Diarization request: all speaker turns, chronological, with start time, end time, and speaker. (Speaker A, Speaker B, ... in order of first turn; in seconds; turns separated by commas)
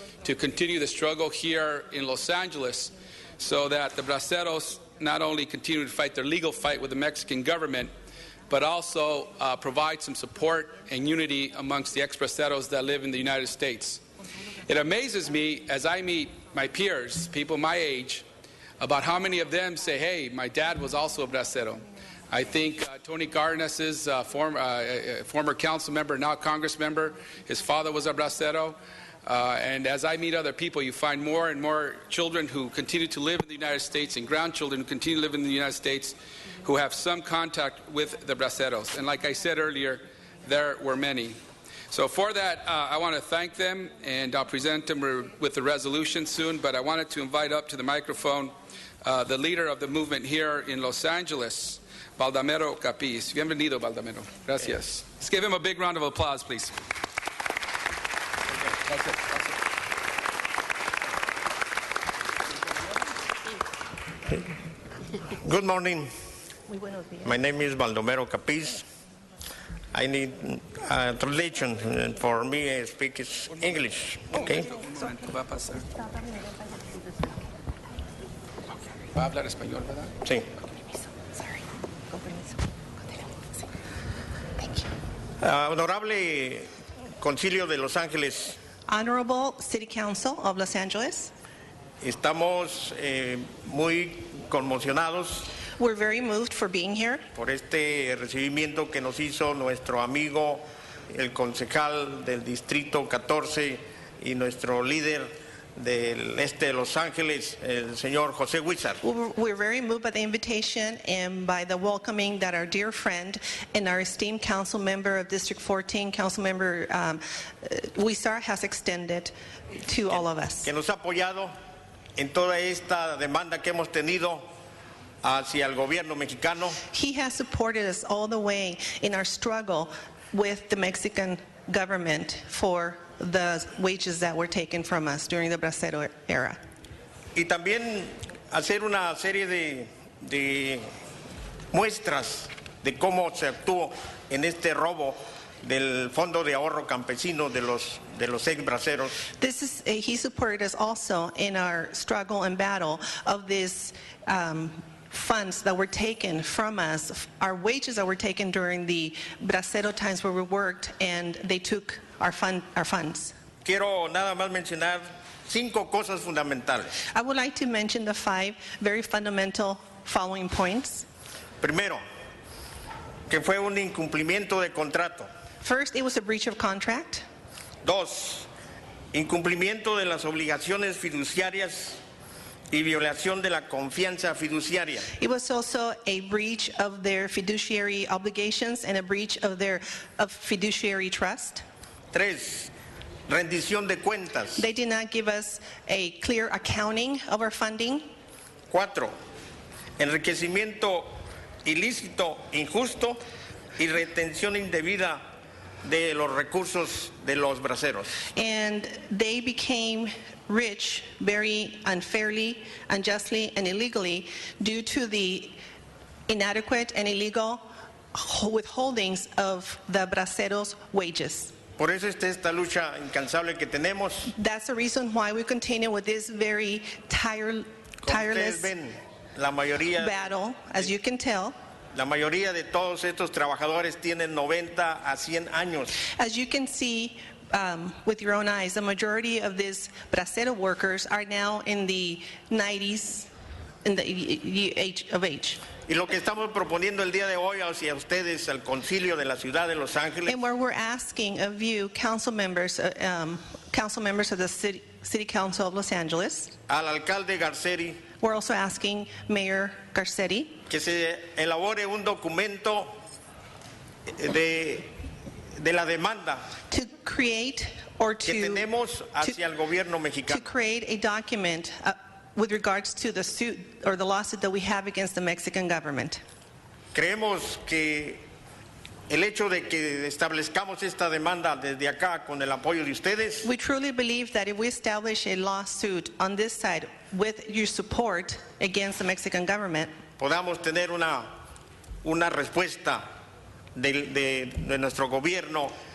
Speaker A: 0.2-7.9, Speaker A: 8.5-14.0, Speaker A: 14.6-18.2, Speaker A: 18.8-41.4, Speaker A: 41.9-56.8, Speaker A: 58.9-59.3, Speaker B: 65.4-66.1, Speaker C: 66.7-67.3, Speaker B: 67.2-68.8, Speaker B: 69.9-74.7, Speaker A: 74.3-75.9, Speaker C: 75.9-77.5, Speaker A: 79.0-80.1, Speaker C: 80.9-83.6, Speaker C: 84.6-84.9, Speaker B: 85.4-86.7, Speaker B: 87.2-88.6, Speaker C: 88.9-91.3, Speaker B: 92.0-95.5, Speaker C: 95.8-97.3, Speaker B: 97.3-109.0, Speaker C: 109.0-120.7, Speaker B: 120.7-121.5, Speaker B: 122.2-124.5, Speaker B: 125.2-126.8, Speaker C: 126.9-136.6, Speaker B: 137.3-140.9, Speaker B: 141.7-149.3, Speaker C: 149.4-163.3, Speaker B: 163.7-167.0, Speaker C: 167.1-171.1, Speaker B: 171.6-172.0, Speaker B: 173.3-175.3, Speaker C: 175.6-177.2, Speaker B: 177.8-178.5, Speaker B: 179.1-182.0, Speaker B: 182.7-185.1, Speaker C: 185.2-191.6, Speaker B: 192.1-192.7, Speaker B: 193.3-194.6, Speaker C: 194.6-198.1, Speaker B: 198.7-199.1, Speaker B: 200.0-201.1, Speaker B: 201.7-203.2, Speaker B: 203.8-205.2, Speaker B: 205.8-208.2, Speaker C: 208.3-215.6, Speaker C: 216.3-217.6, Speaker C: 218.1-221.6, Speaker B: 221.8-224.3, Speaker C: 224.3-228.7, Speaker B: 228.0-230.3, Speaker C: 230.0-231.6, Speaker B: 231.9-236.0, Speaker C: 236.0-243.3, Speaker C: 243.8-245.7, Speaker B: 245.9-250.4, Speaker C: 250.3-256.6, Speaker B: 256.7-258.0, Speaker C: 258.2-260.6, Speaker B: 260.7-262.9, Speaker B: 264.1-264.9, Speaker B: 265.6-266.4, Speaker C: 266.7-268.7, Speaker B: 268.2-270.4, Speaker C: 270.3-276.2, Speaker B: 276.9-278.2, Speaker B: 279.1-283.5, Speaker C: 283.4-289.9, Speaker B: 290.2-291.3, Speaker B: 292.0-293.0, Speaker B: 293.8-295.7